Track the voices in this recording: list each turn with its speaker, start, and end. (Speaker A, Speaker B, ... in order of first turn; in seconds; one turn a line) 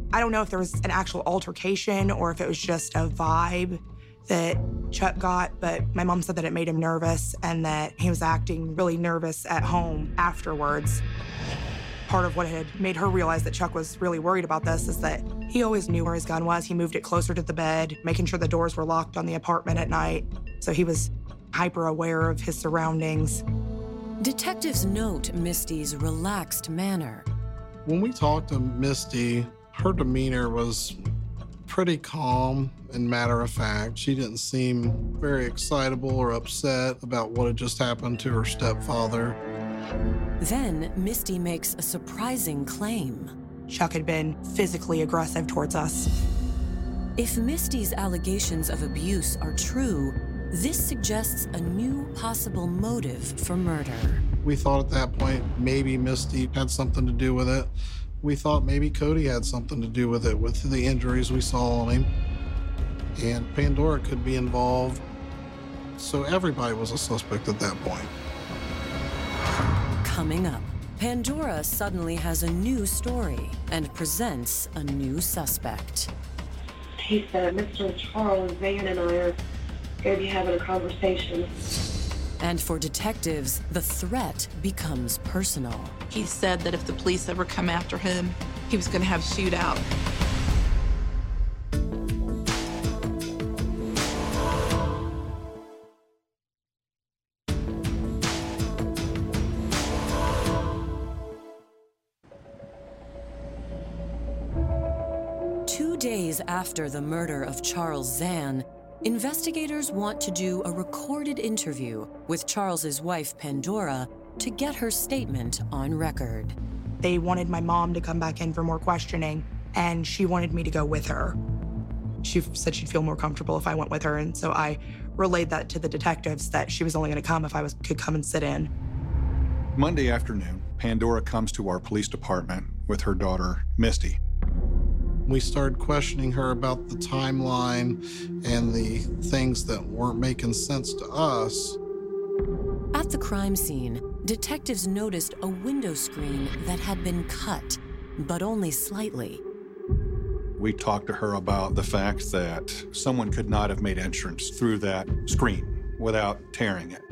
Speaker A: 0.1-11.0
Speaker A: 12.1-23.4
Speaker B: 24.2-27.3
Speaker C: 27.9-31.0
Speaker C: 31.7-39.4
Speaker B: 40.4-43.3
Speaker A: 43.7-46.1
Speaker B: 47.2-54.2
Speaker C: 54.4-62.1
Speaker C: 63.2-65.0
Speaker C: 66.0-68.1
Speaker B: 70.0-76.1
Speaker D: 77.0-79.4
Speaker D: 80.0-81.5
Speaker B: 82.4-86.0
Speaker E: 86.1-89.8
Speaker B: 105.7-116.6
Speaker A: 117.0-121.4
Speaker A: 122.2-128.7
Speaker F: 129.8-134.2
Speaker C: 135.3-141.8
Speaker B: 142.9-149.4
Speaker F: 150.6-157.0